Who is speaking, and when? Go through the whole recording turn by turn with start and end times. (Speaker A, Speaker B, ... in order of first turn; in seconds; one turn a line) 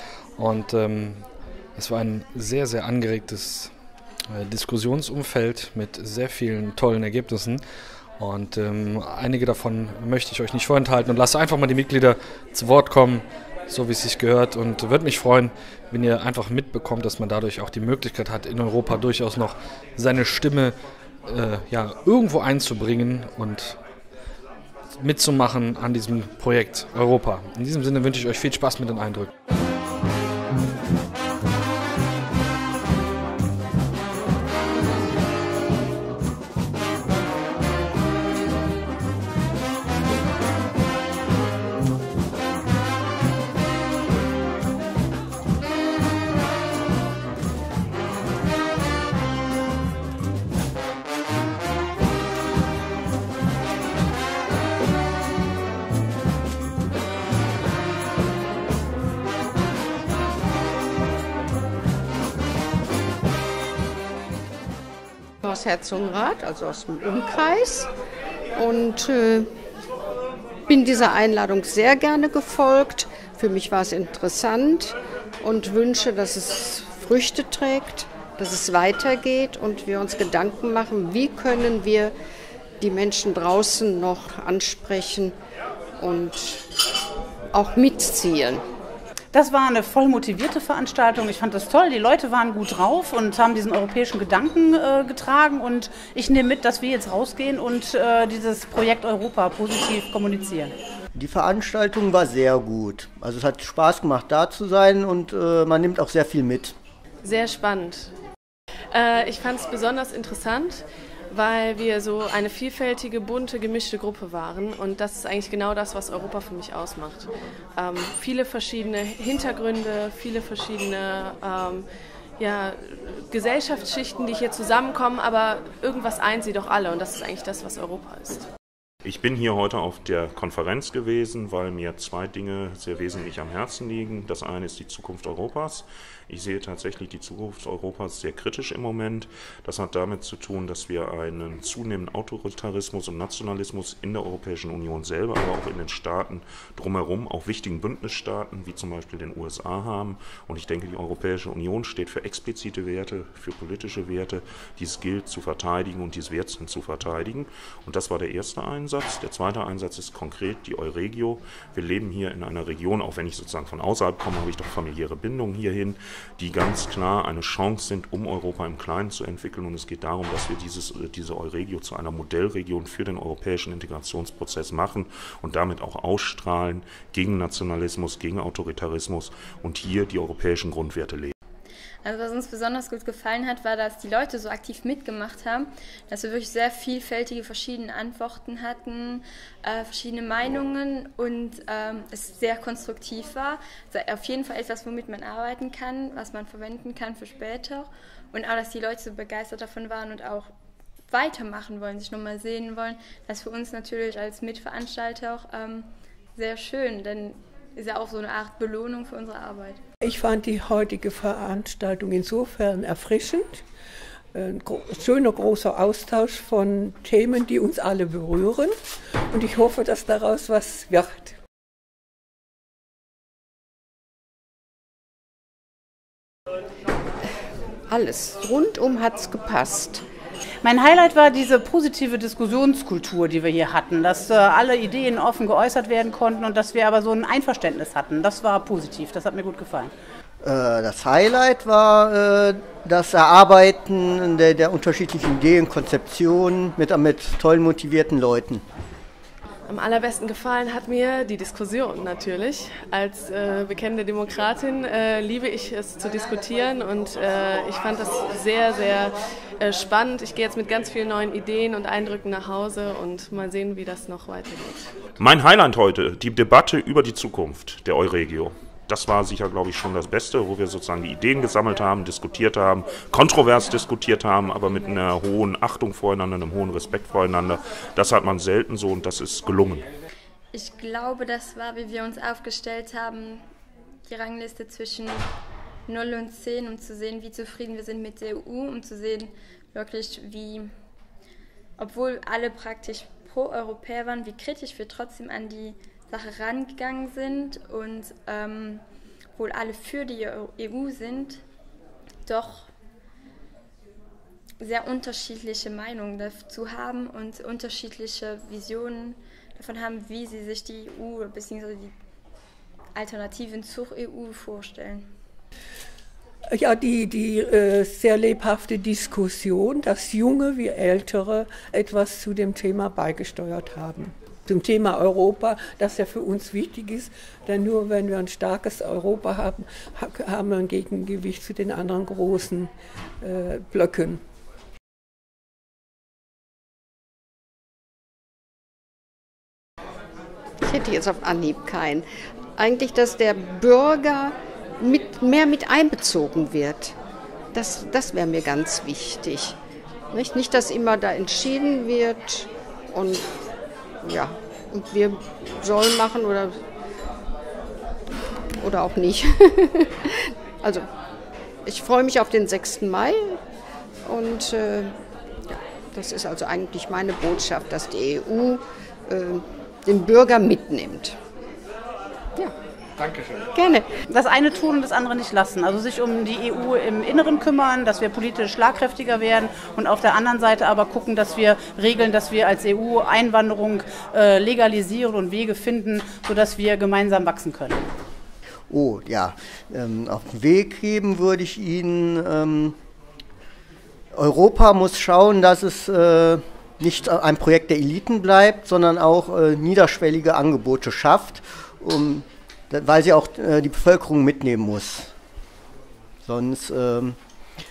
Speaker A: 0.4-1.2
Speaker A: 1.8-3.7
Speaker A: 4.3-7.6
Speaker A: 8.2-20.8
Speaker A: 21.3-23.8
Speaker A: 24.9-29.3
Speaker B: 65.4-67.9
Speaker B: 68.5-69.5
Speaker B: 70.7-82.1
Speaker B: 82.8-85.4
Speaker B: 86.0-86.7
Speaker B: 87.5-88.7
Speaker C: 89.3-100.7
Speaker D: 101.2-106.8
Speaker E: 107.2-108.1
Speaker E: 108.9-121.9
Speaker E: 122.4-128.5
Speaker F: 129.0-181.3
Speaker G: 182.0-200.5
Speaker G: 201.1-209.8
Speaker H: 210.0-213.6
Speaker H: 214.3-218.7
Speaker H: 219.3-221.3
Speaker B: 227.9-230.0
Speaker C: 230.6-239.9
Speaker D: 240.4-248.6
Speaker E: 249.7-264.9
Speaker F: 265.2-279.9
Speaker G: 280.5-283.4
Speaker G: 284.1-285.2
Speaker G: 285.9-290.7
Speaker G: 291.8-298.8
Speaker G: 299.4-301.4
Speaker G: 302.3-302.7
Speaker G: 304.6-311.9
Speaker G: 312.9-315.1
Speaker H: 316.5-332.7
Speaker H: 333.2-334.2
Speaker B: 340.6-342.1
Speaker B: 342.6-347.0
Speaker B: 347.5-349.6
Speaker B: 350.1-353.3
Speaker B: 354.0-356.6
Speaker B: 358.6-360.9
Speaker B: 361.6-363.4
Speaker B: 364.1-364.9
Speaker B: 365.5-371.2
Speaker B: 373.5-373.9
Speaker C: 374.1-387.8
Speaker D: 388.7-392.8
Speaker D: 394.1-405.1
Speaker D: 406.3-407.2